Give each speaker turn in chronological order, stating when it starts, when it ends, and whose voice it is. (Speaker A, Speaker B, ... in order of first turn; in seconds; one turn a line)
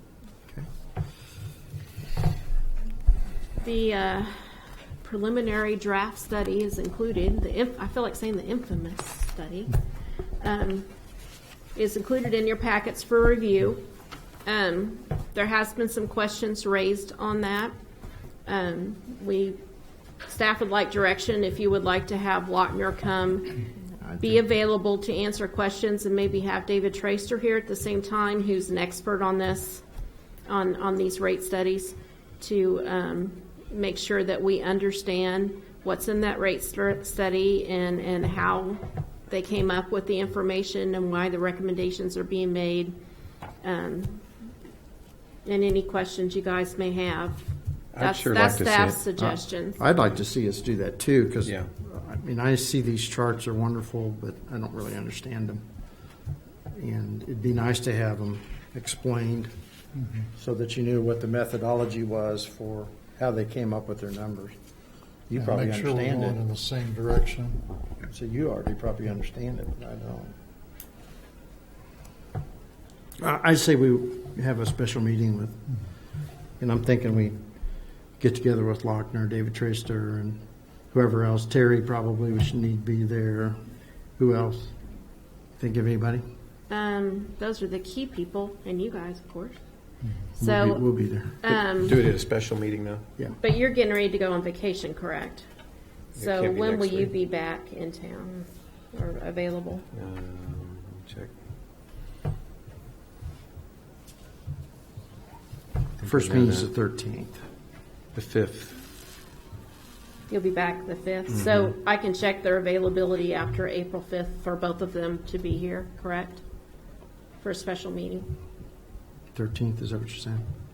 Speaker A: 3.6-4.4
Speaker A: 5.0-9.8
Speaker A: 10.4-10.9
Speaker A: 11.7-13.8
Speaker A: 14.4-17.7
Speaker A: 18.4-19.6
Speaker A: 20.2-23.6
Speaker B: 24.0-24.4
Speaker A: 24.2-29.8
Speaker A: 30.4-43.0
Speaker A: 43.6-44.2
Speaker A: 45.4-47.4
Speaker C: 47.9-49.0
Speaker A: 48.0-49.8
Speaker B: 49.2-55.6
Speaker B: 56.7-59.5
Speaker D: 59.9-60.3
Speaker B: 60.3-64.5
Speaker B: 65.3-66.4
Speaker D: 65.3-67.6
Speaker B: 68.1-70.3
Speaker B: 73.2-75.6
Speaker B: 76.6-77.4
Speaker B: 78.2-83.6
Speaker B: 84.2-84.7
Speaker B: 85.6-86.2
Speaker A: 86.7-89.6
Speaker B: 90.4-91.6
Speaker A: 90.4-90.9
Speaker A: 91.4-92.0
Speaker C: 91.8-93.0
Speaker A: 93.4-95.4
Speaker A: 96.1-99.8
Speaker C: 96.2-97.1
Speaker C: 99.9-101.3
Speaker C: 106.0-106.7
Speaker B: 106.0-107.4
Speaker C: 108.1-108.8
Speaker A: 110.3-116.4
Speaker C: 111.3-111.7
Speaker A: 117.4-118.3
Speaker B: 119.3-120.5